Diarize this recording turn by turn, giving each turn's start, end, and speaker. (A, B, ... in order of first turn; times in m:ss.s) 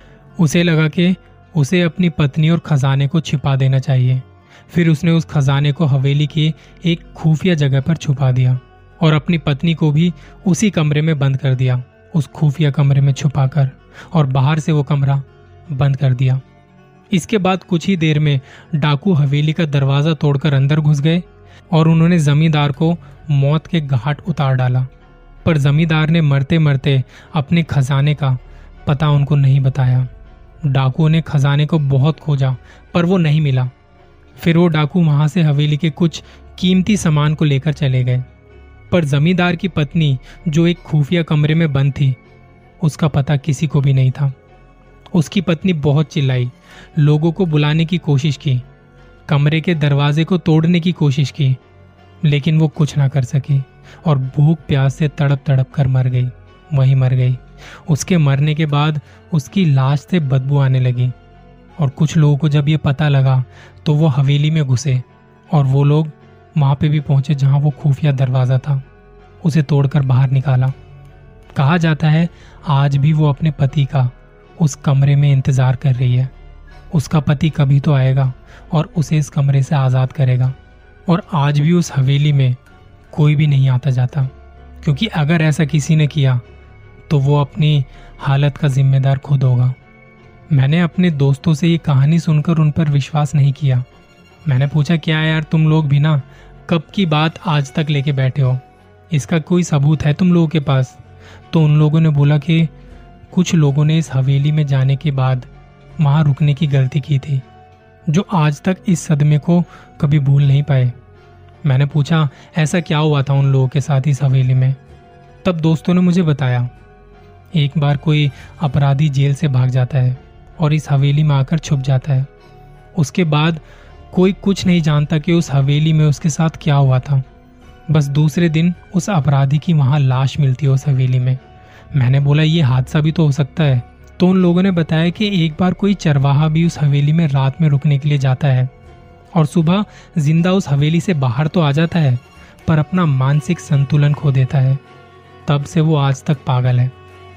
0:00.4-0:16.4 A
0:17.1-0:24.9 A
0:25.4-0:30.1 A
0:30.6-0:33.7 A
0:34.4-0:38.2 A
0:38.9-0:42.2 A
0:42.8-0:44.3 A
0:45.1-0:48.6 A
0:49.3-0:51.6 A
0:52.2-1:01.1 A
1:01.8-1:08.8 A
1:09.4-1:10.7 A
1:11.5-1:16.3 A
1:16.9-1:20.6 A
1:21.1-1:22.6 A
1:23.1-1:24.3 A
1:24.8-1:26.4 A
1:27.1-1:29.8 A
1:30.5-1:33.9 A
1:34.4-1:41.0 A
1:41.5-1:42.7 A
1:43.3-1:47.4 A
1:48.1-1:50.9 A
1:51.6-1:54.8 A
1:55.4-1:56.7 A
1:57.5-2:02.3 A
2:02.9-2:07.2 A
2:07.9-2:11.4 A
2:11.9-2:18.7 A
2:19.3-2:24.8 A
2:25.4-2:26.9 A